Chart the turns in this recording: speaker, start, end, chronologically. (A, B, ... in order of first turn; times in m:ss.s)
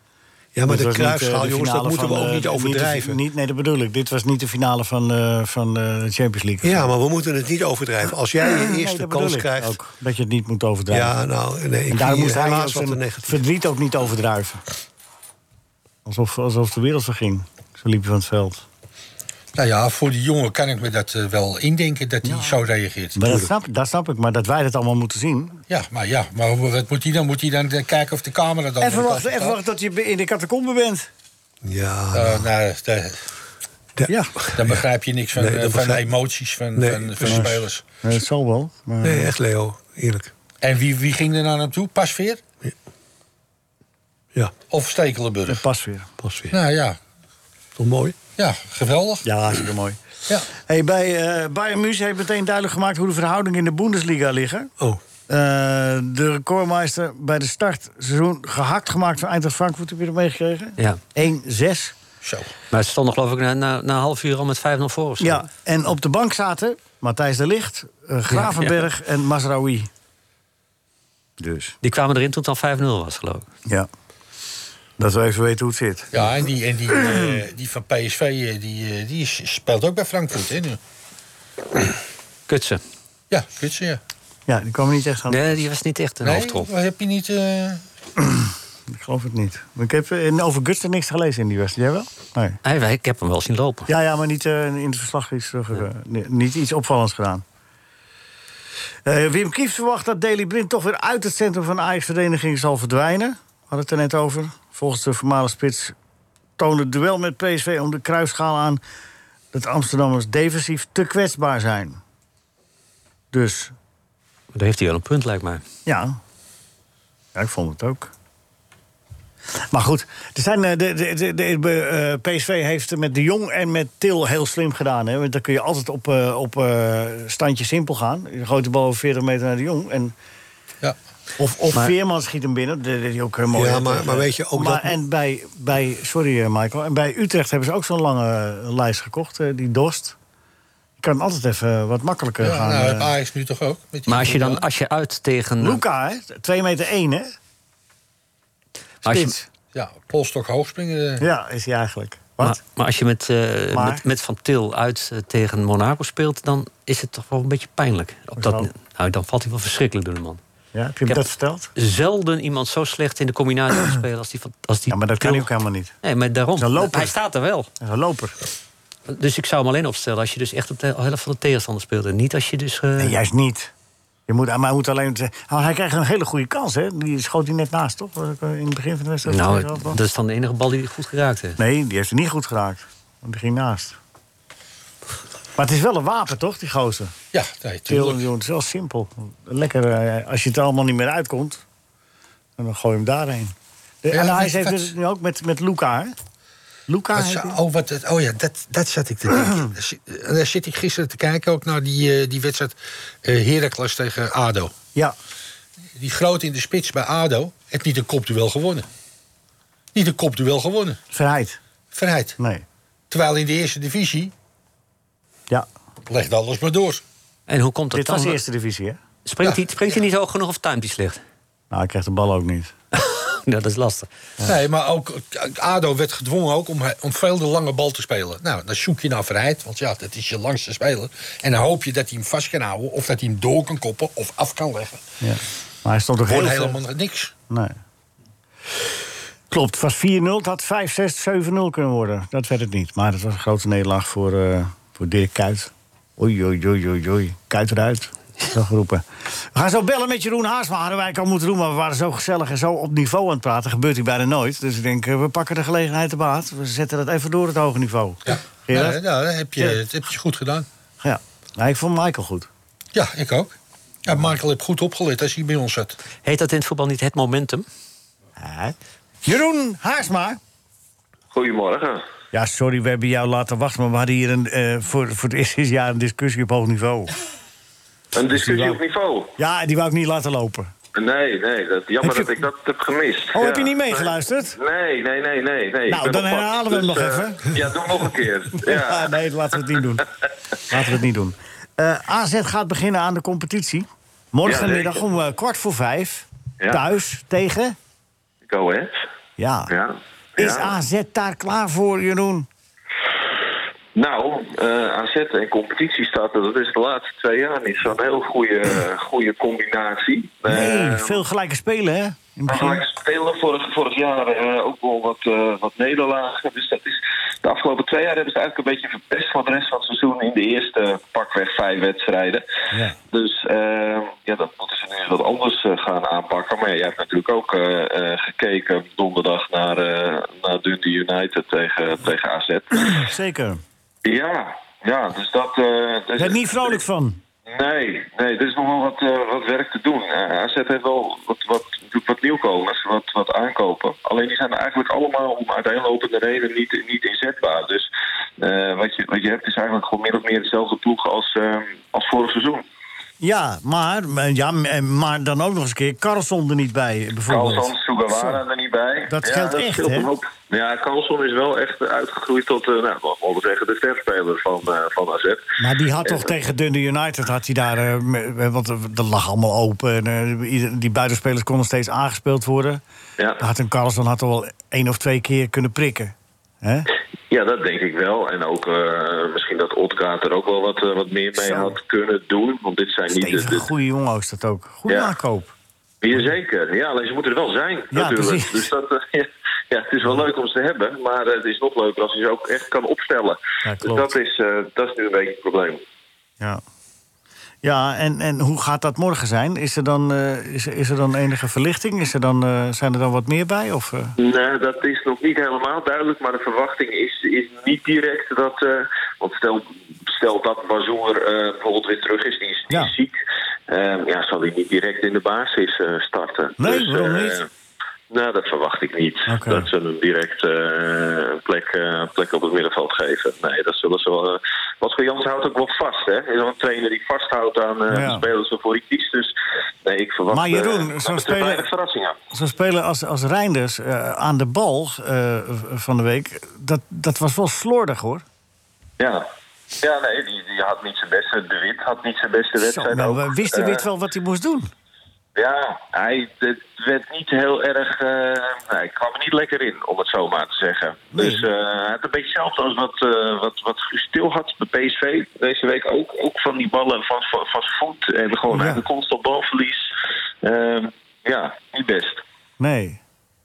0:00.5-0:03.2 A
0:00.7-0:06.9 B
0:06.6-0:09.8 A
0:08.4-0:11.2 B
0:10.9-0:13.4 A
0:11.9-0:14.6 B
0:16.0-0:18.6 B
0:19.5-0:23.2 C
0:22.2-0:22.6 B
0:23.1-0:25.6 B
0:25.7-0:29.6 C
0:28.8-0:31.1 B
0:31.6-0:32.5 A
0:32.1-0:33.2 C
0:34.0-0:34.8 A
0:34.1-0:34.3 B
0:34.5-0:37.8 C
0:35.3-0:36.1 A
0:36.8-0:37.6 A
0:37.2-0:39.3 B
0:39.0-0:40.3 A
0:40.6-0:42.4 C
0:44.7-0:45.6 C
0:45.5-0:46.1 B
0:46.2-0:46.5 A
0:46.5-0:47.0 C
0:47.8-0:48.2 A
0:48.4-0:49.2 C
0:49.2-0:50.0 B
0:50.5-0:54.7 B
0:55.3-1:01.9 B
1:02.2-1:02.5 C
1:02.7-1:05.5 D
1:05.2-1:09.9 B
1:08.3-1:08.9 D
1:11.4-1:11.8 B
1:11.8-1:13.5 D
1:15.0-1:16.2 B
1:16.1-1:20.8 C
1:22.5-1:22.8 D
1:23.3-1:24.0 C
1:24.5-1:25.4 B
1:25.3-1:26.7 D
1:26.2-1:27.8 C
1:28.2-1:32.6 B
1:32.6-1:33.9 D
1:33.9-1:37.4 B
1:39.0-1:45.9 B
1:46.6-1:48.8 B
1:49.5-1:52.0 B
1:53.3-1:53.7 B
1:54.5-1:55.6 D
1:55.8-1:56.2 B
1:57.3-1:58.1 B
1:59.7-2:10.1 B
2:11.4-2:20.2 B
2:13.5-2:15.0 A
2:21.0-2:23.1 B
2:22.4-2:24.6 C
2:24.1-2:25.8 D
2:25.6-2:27.3 B
2:29.0-2:29.4 D
2:29.0-2:29.4 B
2:29.7-2:31.2 C
2:31.2-2:32.6 B
2:32.4-2:40.4 D
2:33.7-2:34.0 B
2:38.4-2:38.7 B
2:40.7-2:41.7 B
2:41.1-2:45.5 D
2:44.9-2:45.9 B
2:46.0-2:47.7 D
2:46.6-2:47.1 B
2:47.8-2:48.4 B
2:49.1-2:53.2 D
2:53.0-2:53.7 B
2:54.3-3:00.0 B
2:59.2-3:01.6 D
3:01.6-3:04.0 B
3:05.6-3:07.1 B
3:07.3-3:08.2 C
3:07.9-3:11.6 B
3:12.6-3:16.1 B
3:14.1-3:14.9 C
3:16.9-3:17.6 B
3:17.1-3:24.7 C
3:26.0-3:28.8 C
3:29.9-3:31.0 C
3:31.1-3:31.6 B
3:31.9-3:32.3 C
3:32.4-3:32.6 B
3:33.1-3:34.3 C
3:36.1-3:37.0 C
3:37.5-3:38.4 D
3:37.9-3:39.0 B
3:39.2-3:41.2 D
3:41.7-3:42.7 B
3:43.0-3:44.1 D
3:44.4-3:55.0 C
3:55.2-3:56.8 B
3:56.2-3:57.3 C
3:57.5-3:57.8 B
3:59.5-4:19.0 B
4:18.3-4:20.6 C
4:21.0-4:22.5 B
4:22.9-4:26.0 C
4:26.2-4:27.7 D
4:28.4-4:30.4 B
4:31.3-4:32.0 E
4:32.3-4:37.1 B
4:38.1-4:39.3 E
4:38.3-4:38.8 B
4:39.4-4:40.7 B
4:41.0-4:49.1 E
4:42.0-4:42.3 B
4:43.3-4:44.6 B
4:45.9-4:47.6 B
4:48.6-4:50.0 B
4:50.7-4:57.8 B
4:54.4-4:55.0 E
4:58.4-4:59.0 E
4:59.4-4:59.7 B
4:59.7-5:00.8 E
5:00.4-5:02.5 B
5:03.9-5:11.2 E
5:10.5-5:12.8 B
5:12.5-5:22.4 E
5:22.7-5:23.0 B
5:23.1-5:33.0 E
5:32.9-5:33.6 B
5:34.0-5:36.8 E
5:36.2-5:37.2 B
5:37.5-5:52.6 E
5:53.2-5:58.4 B
5:57.3-6:05.4 E
5:59.1-6:00.1 B
6:05.6-6:12.8 B
6:13.4-6:16.9 B
6:17.3-6:23.7 E
6:21.3-6:21.8 B
6:23.1-6:25.5 B
6:24.9-6:25.1 E
6:26.0-6:35.8 E
6:27.9-6:28.7 B
6:33.6-6:34.1 B
6:37.6-6:44.1 B
6:44.2-6:53.2 E
6:53.7-6:57.5 E
6:56.6-6:57.4 B
6:58.1-7:12.2 E
6:59.3-6:59.7 B
7:07.9-7:08.2 B
7:10.3-7:11.6 B
7:12.3-7:18.2 B
7:19.0-7:19.3 E
7:19.8-7:23.8 E
7:22.6-7:24.7 B
7:25.3-7:39.9 E
7:31.1-7:31.4 B
7:38.5-7:38.8 B
7:40.4-7:42.2 E
7:42.6-7:43.0 B